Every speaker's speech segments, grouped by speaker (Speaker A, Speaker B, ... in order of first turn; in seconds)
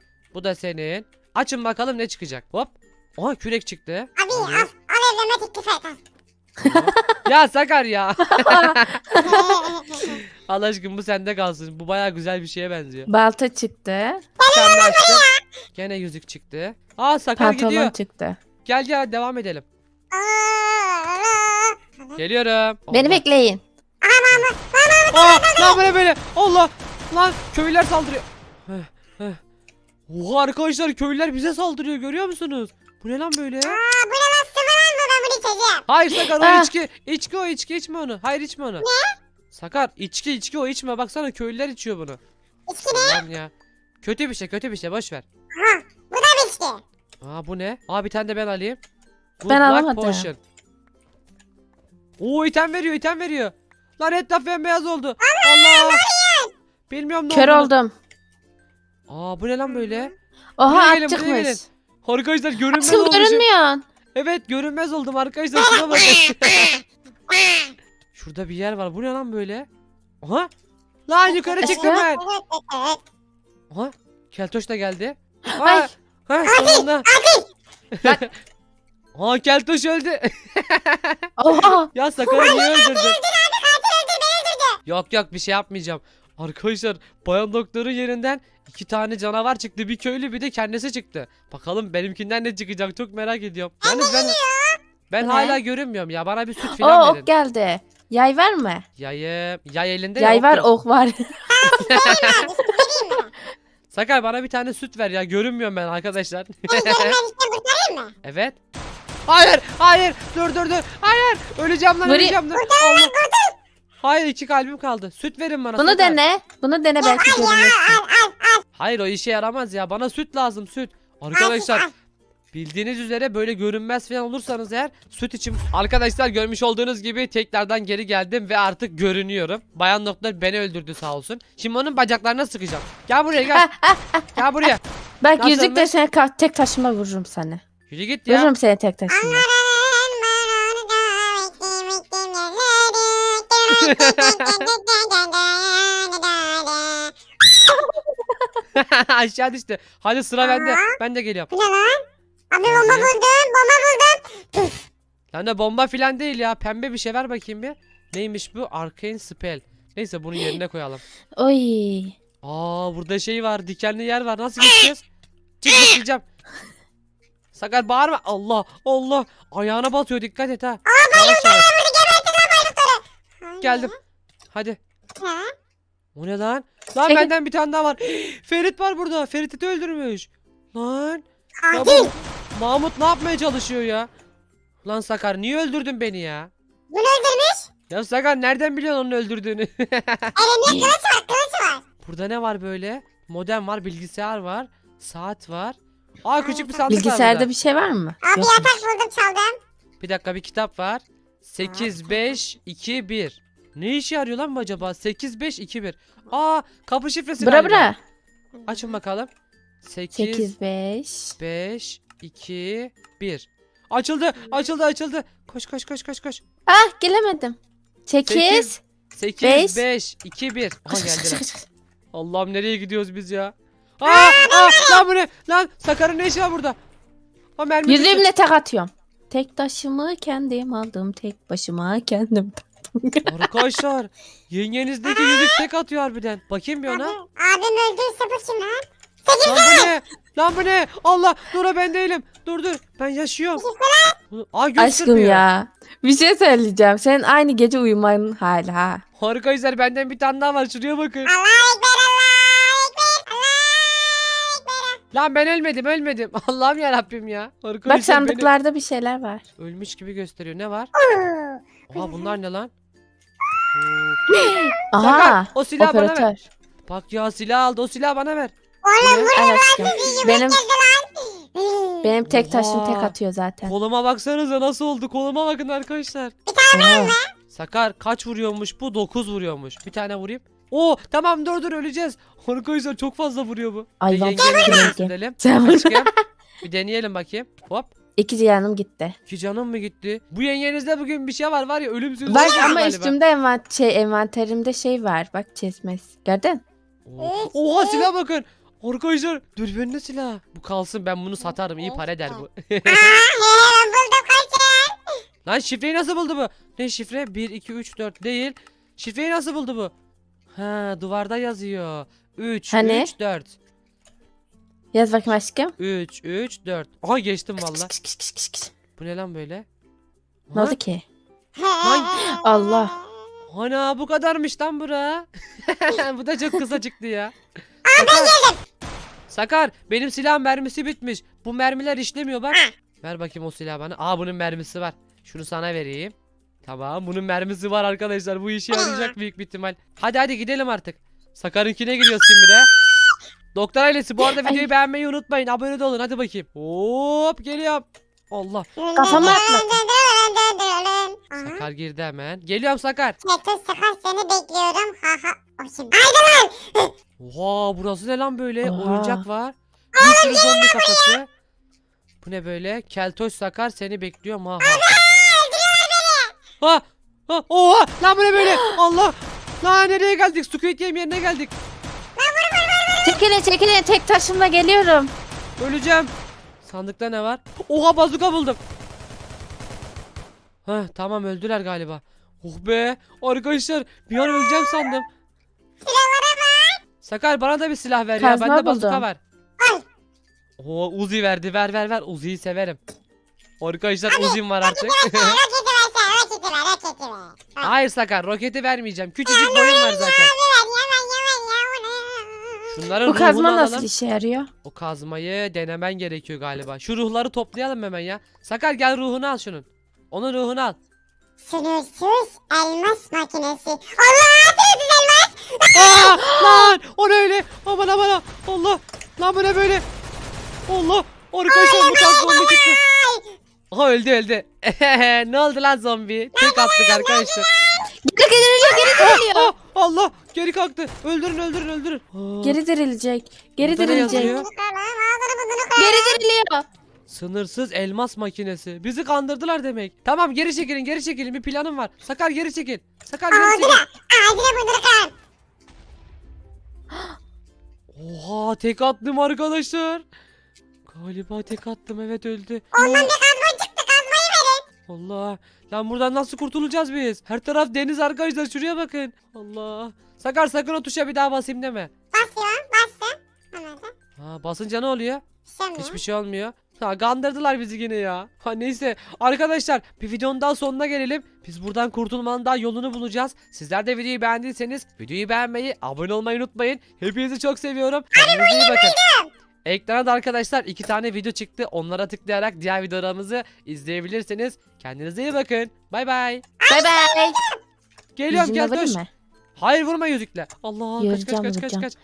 Speaker A: 0.3-4.7, 6.6-9.0, 10.2-13.1, 14.5-15.2, 15.7-17.9, 18.6-19.6, 22.1-23.2, 25.1-29.4, 30.1-33.8, 35.9-38.9, 39.5-42.2, 42.9-43.5, 44.0-45.2, 47.2-48.8, 49.4-50.4, 52.2-56.0, 56.9-57.7, 59.1-60.1, 60.6-63.5, 64.1-66.8, 68.1-69.7, 70.2-70.5, 71.1-72.2, 73.7-77.1, 77.9-78.3, 79.1-81.3, 81.9-83.2, 84.8-94.4, 95.1-97.3, 99.0-100.7, 101.7-102.4, 103.9-107.2, 108.2-108.6, 109.3-113.1, 114.0-116.2, 118.8-121.9, 122.5-133.7, 134.3-134.8, 135.4-135.9, 137.9-138.5, 143.7-144.7, 148.7-151.5, 152.6-153.1, 155.3-161.0, 162.4-165.0, 165.6-166.2, 167.5-171.7, 173.6-173.9, 174.5-174.8, 176.2-184.1, 184.8-186.5, 187.9-190.3, 192.0-197.5, 200.0-207.9, 208.7-209.3, 209.8-210.5, 211.4-216.4, 218.2-221.4, 222.1-226.8, 227.6-228.3, 233.2-237.2, 239.4-243.6, 244.3-245.4, 249.2-251.3, 255.1-258.5, 259.6-260.9, 261.9-262.7, 263.7-264.2, 265.0-266.3, 266.9-269.3, 272.3-276.3, 277.5-286.1, 286.6-287.9, 289.3-293.1, 297.1-303.2, 305.4-309.9, 310.5-313.5, 315.8-317.9, 319.0-319.6, 320.5-320.8, 321.8-322.3, 323.5-328.4, 329.3-342.7, 343.5-349.4, 351.4-353.2, 357.2-361.3, 362.2-364.9, 366.6-371.5, 375.6-376.1, 376.6-378.6, 380.6-385.1, 387.0-389.2, 390.6-392.8, 393.6-395.4, 397.6-400.3, 402.7-403.9, 404.6-410.8, 415.7-419.8, 420.7-422.8, 423.7-427.5, 428.9-432.6, 433.6-434.5, 437.1-443.8, 447.9-450.0, 450.9-453.1, 454.9-461.9, 464.2-465.2, 465.8-479.0, 479.6-486.4, 488.1-489.0, 489.6-491.9
Speaker B: 4.2-6.0, 9.2-10.2, 14.4-15.3, 20.1-22.1, 24.0-25.9, 33.6-35.8, 38.8-39.1, 42.7-43.2, 45.5-46.8, 55.2-56.5, 65.7-66.8, 67.3-67.7, 71.6-73.0, 76.5-77.5, 82.2-84.8, 93.8-94.8, 101.5-103.3, 106.7-108.1, 112.5-113.5, 117.0-118.6, 121.3-121.9, 139.1-147.1, 150.4-150.8, 151.5-154.7, 170.9-173.9, 175.2-175.5, 181.7-182.1, 186.9-187.7, 190.3-191.8, 198.2-199.6, 224.1-225.0, 236.9-239.9, 243.6-244.2, 251.2-255.0, 261.1-261.6, 268.8-272.1, 276.5-277.3, 297.2-298.0, 302.9-305.0, 321.6-322.7, 327.9-328.6, 348.8-351.6, 353.2-356.9, 360.0-361.1, 364.6-366.3, 372.2-373.2, 385.8-386.8, 394.1-397.7, 399.2-402.7, 411.4-416.3, 421.5-423.3, 426.4-427.4, 433.8-436.2, 443.3-445.1, 452.7-454.6, 462.1-463.9, 465.5-466.0, 478.2-479.3, 486.6-487.0
Speaker C: 6.6-6.9, 8.3-9.6, 13.1-14.2, 17.4-18.4, 22.9-23.6, 36.4-36.7, 49.5-50.3, 57.3-57.9, 60.6-61.6, 62.7-63.8, 71.6-72.0, 75.5-75.8, 81.4-81.9, 95.2-95.6, 96.7-98.8, 100.2-102.5, 112.0-112.4, 115.8-118.0, 133.5-134.4, 135.2-137.6, 138.3-139.4, 161.4-162.1, 190.7-190.9, 196.9-198.8, 207.4-208.0, 210.1-211.3, 216.7-218.8, 219.4-219.8, 220.9-221.6, 227.8-233.3, 244.8-249.0, 257.9-259.4, 264.3-266.4, 269.3-270.6, 272.0-273.7, 276.7-277.1, 284.0-286.1, 288.2-289.1, 292.3-296.6, 312.7-313.1, 314.9-315.7, 317.6-318.7, 320.5-321.0, 322.3-322.9, 348.9-349.8, 358.6-359.2, 373.0-375.1, 388.2-389.0, 403.1-404.5, 428.0-429.5, 432.4-434.3, 435.8-436.6, 486.7-487.4, 488.3-489.1, 491.0-491.9